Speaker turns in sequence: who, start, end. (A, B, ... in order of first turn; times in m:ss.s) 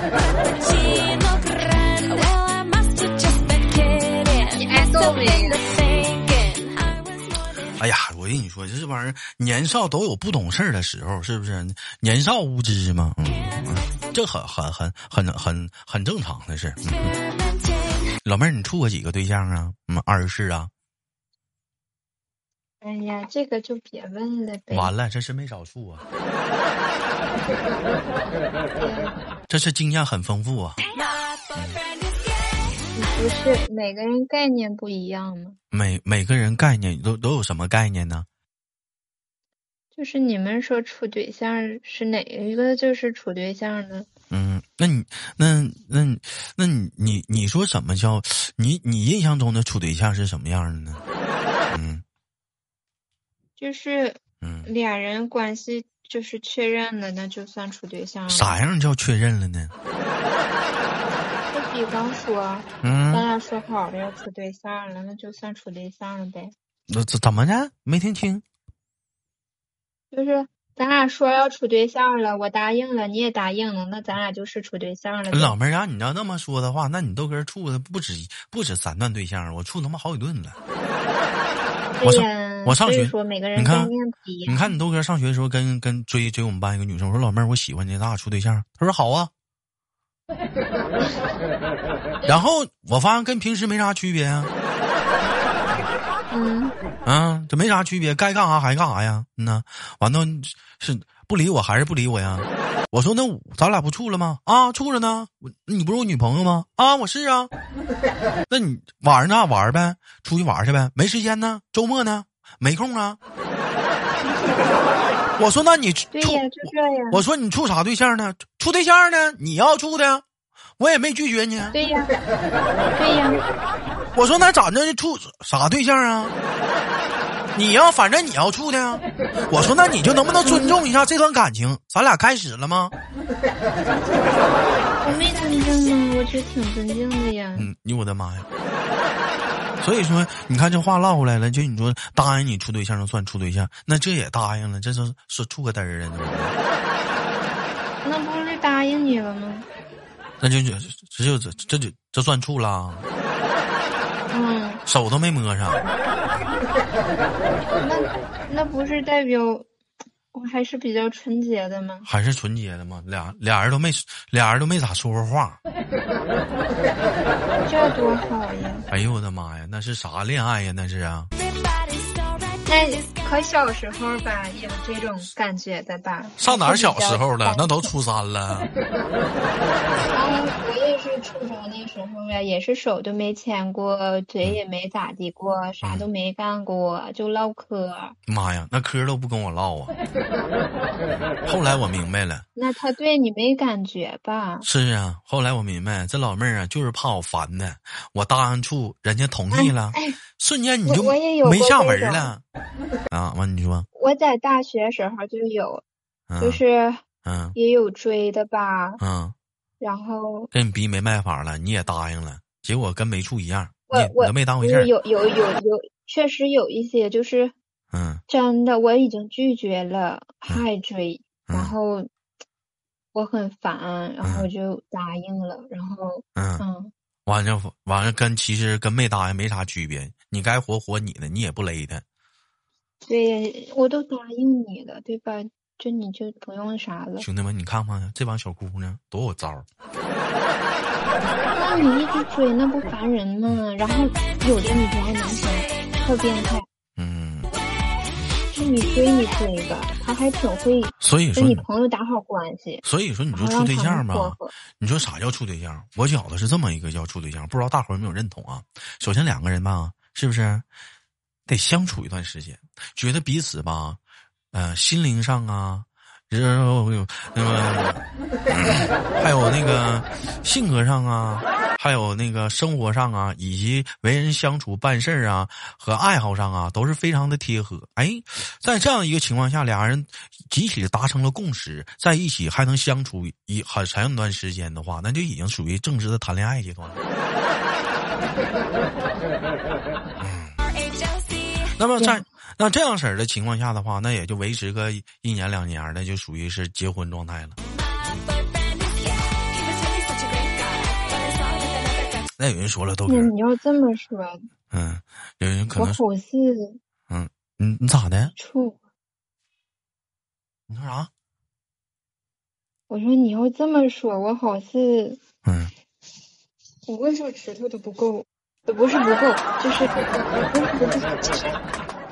0:00.2-0:07.7 A
0:04.6-0:05.6 B
0:07.8-0:17.2 C
0:17.0-0:18.2 A
0:18.2-0:20.7 C
0:22.8-0:24.9 B
0:24.7-0:26.1 C
0:28.8-0:29.2 B
0:29.5-0:30.8 C
0:30.9-0:32.7 A
0:31.6-0:31.8 C
0:33.0-0:35.6 B
0:35.7-0:38.3 C
0:40.0-0:44.1 B
0:44.3-0:51.0 C
0:51.7-0:52.0 C
0:53.6-0:58.6 B
0:54.4-0:54.7 C
0:58.3-0:59.7 C
1:01.5-1:06.5 B
1:02.8-1:03.3 C
1:06.9-1:08.4 C
1:10.1-1:15.6 B
1:15.3-1:20.6 C
1:22.0-1:24.7 B
1:22.0-1:23.9 C
1:24.5-1:29.3 C
1:32.3-1:34.5 C
1:36.3-1:36.7 B
1:37.1-1:47.5 C
1:48.5-1:53.2 C
1:55.4-1:56.5 C
1:56.1-1:57.2 B
1:57.1-2:00.2 C
2:00.8-2:01.8 C
2:01.7-2:02.1 B
2:03.0-2:03.4 B
2:04.2-2:06.3 C
2:07.6-2:12.9 C
2:10.4-2:10.8 B
2:15.0-2:17.7 B
2:17.6-2:18.5 C
2:19.8-2:26.6 C
2:28.0-2:29.7 B
2:30.4-2:33.1 C
2:34.3-2:34.8 B
2:34.9-2:35.8 C
2:37.8-2:39.7 B
2:40.3-2:42.1 B
2:42.0-2:45.6 C
2:47.7-2:48.9 B
2:48.9-2:51.3 C
2:51.4-2:52.6 A
2:52.6-2:57.9 B
2:56.4-2:58.7 C
3:00.0-3:08.2 B
3:05.8-3:06.1 C
3:08.3-3:10.0 C
3:11.1-3:12.5 C
3:12.6-3:14.7 B
3:14.6-3:22.4 C
3:19.5-3:20.2 B
3:20.8-3:22.3 B
3:23.1-3:23.9 C
3:23.9-3:25.8 B
3:26.3-3:26.6 C
3:26.4-3:27.0 B
3:27.2-3:27.6 C
3:27.6-3:29.0 B
3:29.0-3:29.4 C
3:29.8-3:30.5 B
3:30.5-3:34.9 C
3:33.9-3:37.5 B
3:37.9-3:38.2 C
3:38.3-3:42.1 B
3:41.5-3:41.8 C
3:43.1-3:46.9 B
3:44.2-3:44.5 C
3:46.4-3:46.6 C
3:47.3-3:52.0 C
3:53.1-3:57.3 B
3:57.2-3:59.7 C
4:01.5-4:06.7 B
4:07.0-4:07.5 C
4:08.5-4:14.5 B
4:11.0-4:11.7 C
4:12.8-4:20.6 C
4:21.5-4:24.0 C
4:24.5-4:47.0 C
4:50.2-4:50.6 C
4:50.6-4:51.8 A
4:51.8-4:57.6 C
4:57.9-5:02.3 A
5:02.4-5:03.3 C
5:03.1-5:04.4 B
5:04.7-5:06.0 C
5:05.8-5:06.8 B
5:07.1-5:08.3 C
5:08.4-5:08.8 B
5:10.7-5:11.1 C
5:12.9-5:15.2 B
5:15.4-5:15.7 C
5:16.9-5:21.6 B